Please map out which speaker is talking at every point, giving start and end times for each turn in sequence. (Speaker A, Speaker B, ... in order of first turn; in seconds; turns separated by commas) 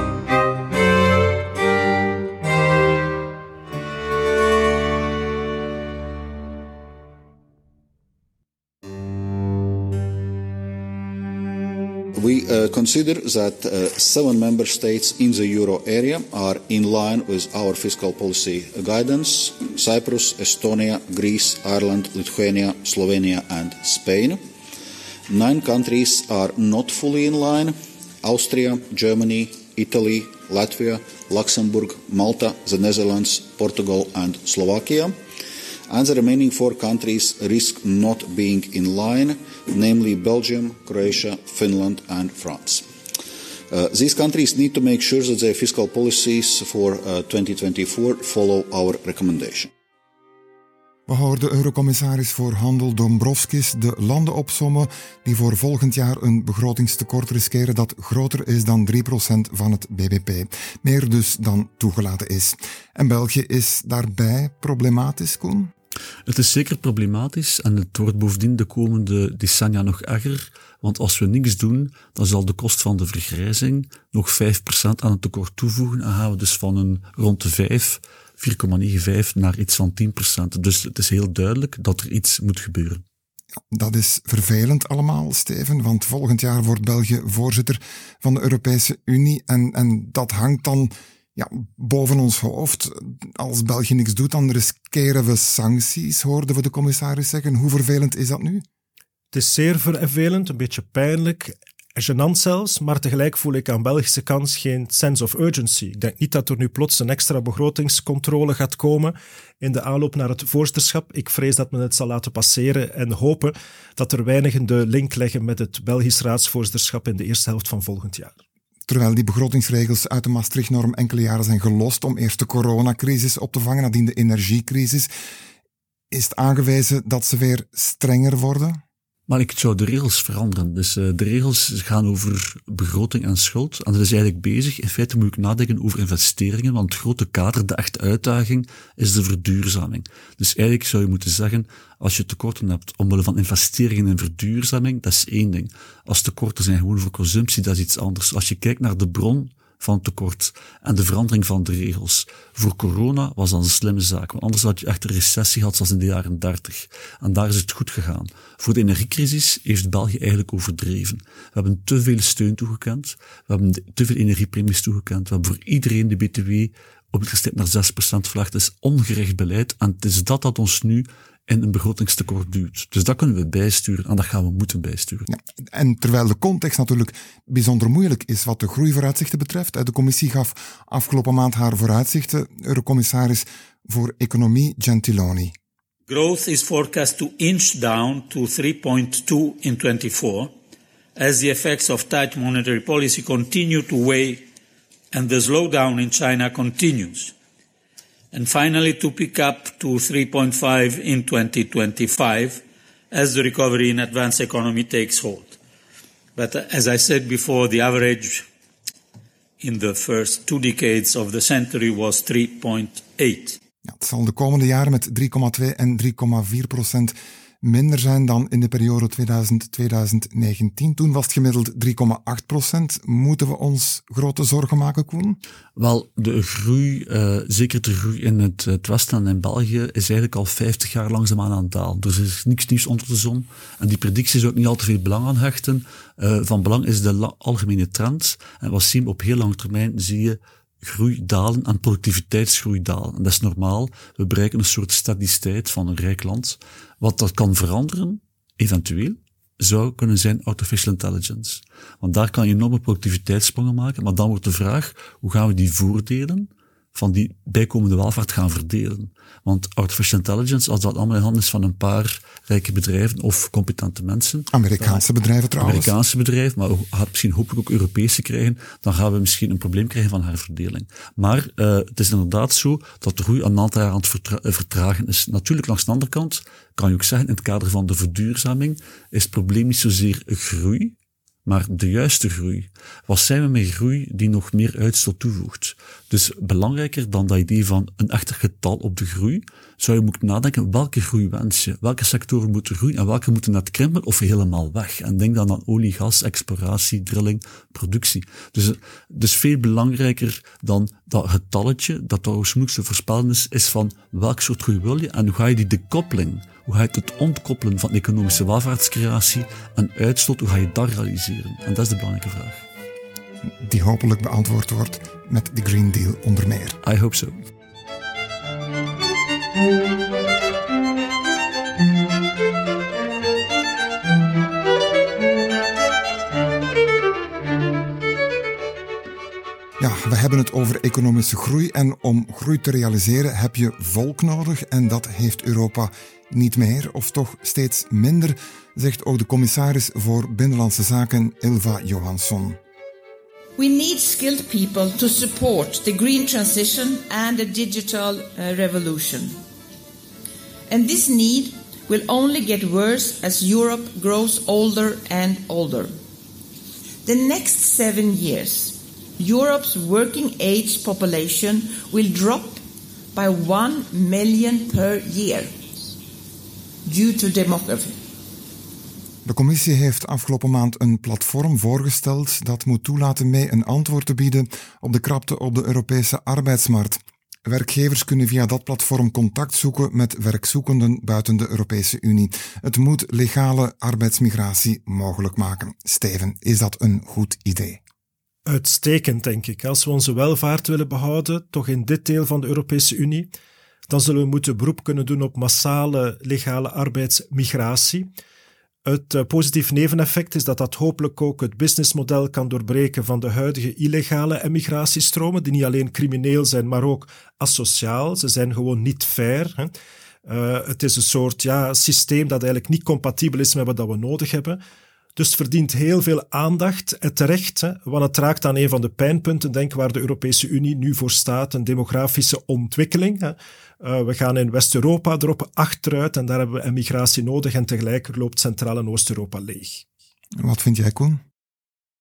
Speaker A: 12.2-24.4, Speaker A: 25.3-35.2, Speaker A: 35.9-42.9, Speaker A: 43.7-49.7, Speaker B: 51.1-65.7, Speaker C: 66.3-83.0, Speaker B: 83.7-98.6, Speaker D: 99.3-118.4, Speaker B: 118.9-125.1, Speaker B: 126.1-128.8, Speaker C: 129.3-175.3, Speaker B: 175.3-185.5, Speaker E: 186.1-190.5, Speaker E: 191.2-194.4, Speaker E: 195.1-197.3, Speaker E: 198.3-205.6, Speaker E: 206.3-208.5, Speaker E: 209.6-213.6, Speaker B: 213.8-225.4, Speaker C: 225.8-265.0, Speaker B: 264.5-265.9, Speaker C: 265.6-312.6, Speaker B: 313.6-316.8, Speaker C: 316.8-317.4, Speaker B: 329.8-342.6, Speaker F: 343.6-349.4, Speaker F: 350.7-355.9, Speaker F: 357.1-362.6, Speaker F: 363.1-365.5, Speaker F: 366.9-368.0, Speaker B: 369.2-387.8, Speaker D: 388.5-393.3, Speaker D: 393.9-398.1, Speaker D: 398.9-409.7, Speaker D: 410.3-414.6, Speaker D: 415.2-429.9, Speaker B: 430.4-431.2